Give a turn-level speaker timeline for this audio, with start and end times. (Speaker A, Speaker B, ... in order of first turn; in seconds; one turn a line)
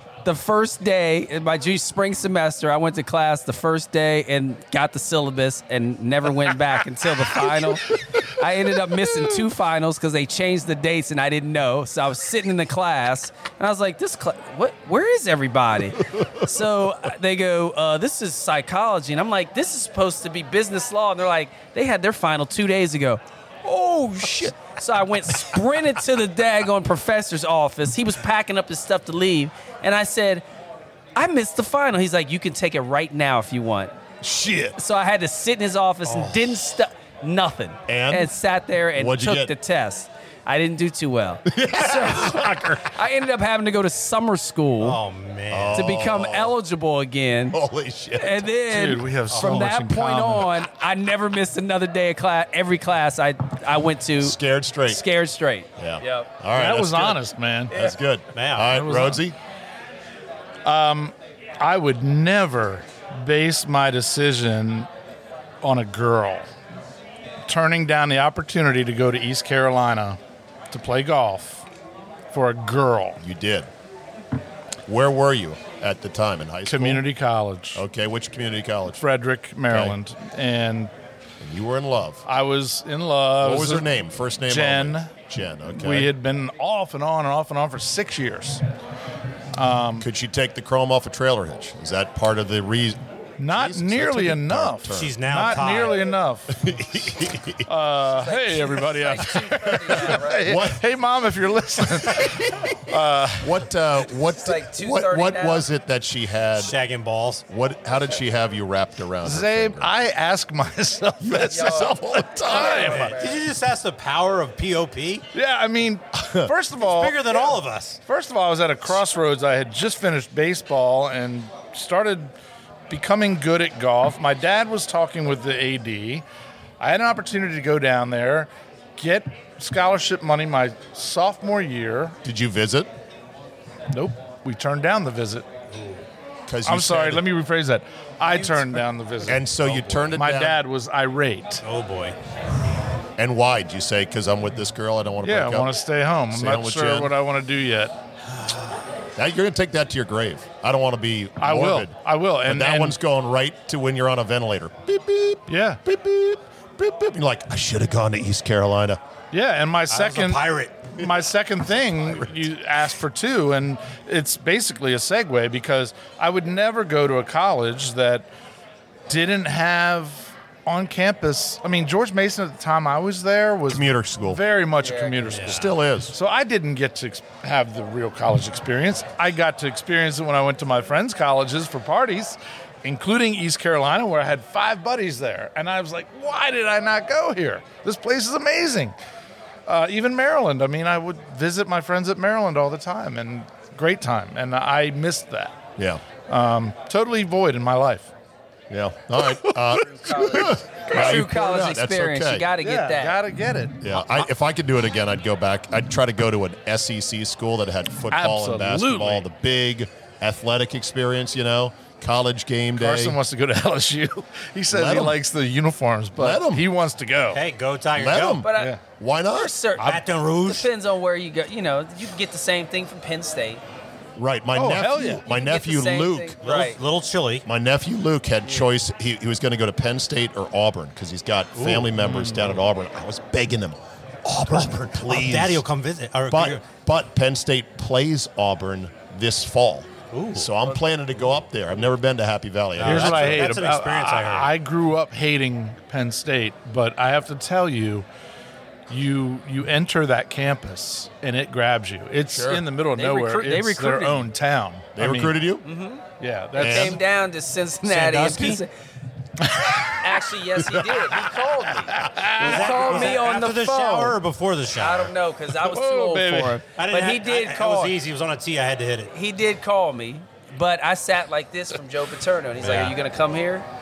Speaker A: 0.2-30.4
Speaker A: 31.1-33.9
Speaker B: 34.2-34.8
Speaker A: 34.8-45.0
Speaker C: 36.0-36.4
Speaker B: 37.9-38.3
Speaker B: 38.9-39.5
Speaker B: 41.5-42.8
Speaker C: 44.8-45.9
Speaker B: 45.5-46.5
Speaker A: 45.8-47.6
Speaker B: 47.5-48.5
Speaker A: 48.2-56.3
Speaker D: 48.7-50.5
Speaker C: 49.3-49.7
Speaker B: 54.2-55.0
Speaker B: 55.8-59.4
Speaker D: 56.5-57.7
Speaker C: 58.3-58.7
Speaker D: 58.7-59.2
Speaker D: 60.6-64.9
Speaker D: 65.6-66.5
Speaker D: 67.5-70.2
Speaker D: 70.7-71.6
Speaker D: 72.3-73.2
Speaker B: 73.2-73.7
Speaker B: 74.8-77.0
Speaker D: 76.7-77.8
Speaker B: 77.7-79.0
Speaker D: 79.0-80.9
Speaker B: 79.7-80.0
Speaker B: 81.4-82.2
Speaker D: 82.2-83.8
Speaker B: 83.4-86.1
Speaker D: 84.5-85.1
Speaker D: 85.7-88.6
Speaker D: 89.5-90.1
Speaker B: 90.0-95.8
Speaker D: 93.4-96.6
Speaker C: 94.9-96.1
Speaker B: 96.5-97.7
Speaker D: 97.7-103.7
Speaker A: 98.1-100.5
Speaker B: 99.7-100.8
Speaker B: 102.0-106.8
Speaker A: 104.2-105.7
Speaker C: 106.5-107.4
Speaker B: 107.5-109.9
Speaker D: 109.2-113.1
Speaker B: 111.2-113.1
Speaker A: 111.5-113.4
Speaker C: 112.5-115.2
Speaker D: 115.3-117.5
Speaker B: 116.2-116.5
Speaker C: 116.8-118.0
Speaker D: 118.0-122.3
Speaker D: 122.9-126.2
Speaker D: 126.8-132.2
Speaker B: 132.2-132.9
Speaker D: 133.9-135.5
Speaker C: 135.7-136.0
Speaker B: 136.5-137.2
Speaker D: 136.6-141.6
Speaker B: 139.2-140.6
Speaker C: 141.6-142.2
Speaker B: 143.2-145.7
Speaker D: 145.2-147.9
Speaker B: 146.3-147.1
Speaker C: 148.3-148.8
Speaker B: 149.2-151.9
Speaker D: 151.4-153.0
Speaker B: 152.4-159.0
Speaker D: 155.5-155.8
Speaker D: 159.3-168.3
Speaker C: 159.9-160.9
Speaker B: 162.0-162.4
Speaker D: 169.1-188.9
Speaker B: 173.7-174.4
Speaker A: 174.8-175.2
Speaker C: 175.2-175.7
Speaker B: 175.4-176.2
Speaker D: 189.7-195.5
Speaker B: 195.8-196.0
Speaker D: 196.3-198.1
Speaker B: 198.7-202.4
Speaker D: 199.2-201.3
Speaker A: 199.8-203.2
Speaker D: 202.6-204.2
Speaker B: 203.8-213.2
Speaker D: 208.1-209.2
Speaker D: 212.8-217.4
Speaker B: 214.7-215.2
Speaker B: 216.2-216.7
Speaker C: 217.3-218.4
Speaker B: 217.9-219.5
Speaker A: 218.4-218.8
Speaker D: 218.5-218.8
Speaker A: 219.3-223.6
Speaker C: 219.8-220.7
Speaker B: 224.2-226.4
Speaker D: 224.5-225.2
Speaker A: 225.3-226.8
Speaker C: 226.4-227.4
Speaker B: 227.4-235.6
Speaker C: 231.6-231.9
Speaker D: 232.0-232.5
Speaker C: 235.0-236.6
Speaker B: 236.3-243.7
Speaker C: 240.1-240.5
Speaker C: 242.8-244.5
Speaker D: 242.8-248.1
Speaker D: 248.9-255.4
Speaker B: 252.3-252.6
Speaker A: 252.9-254.2
Speaker B: 254.9-255.7
Speaker A: 255.6-256.0
Speaker D: 256.2-257.0
Speaker B: 256.6-257.0
Speaker A: 256.6-258.7
Speaker C: 257.8-258.6
Speaker D: 259.4-259.9
Speaker A: 259.9-264.2
Speaker B: 260.6-261.3
Speaker D: 261.9-263.1
Speaker C: 262.4-265.1
Speaker A: 264.8-268.0
Speaker D: 265.6-266.6
Speaker C: 266.8-269.1
Speaker A: 269.1-273.6
Speaker C: 272.6-272.9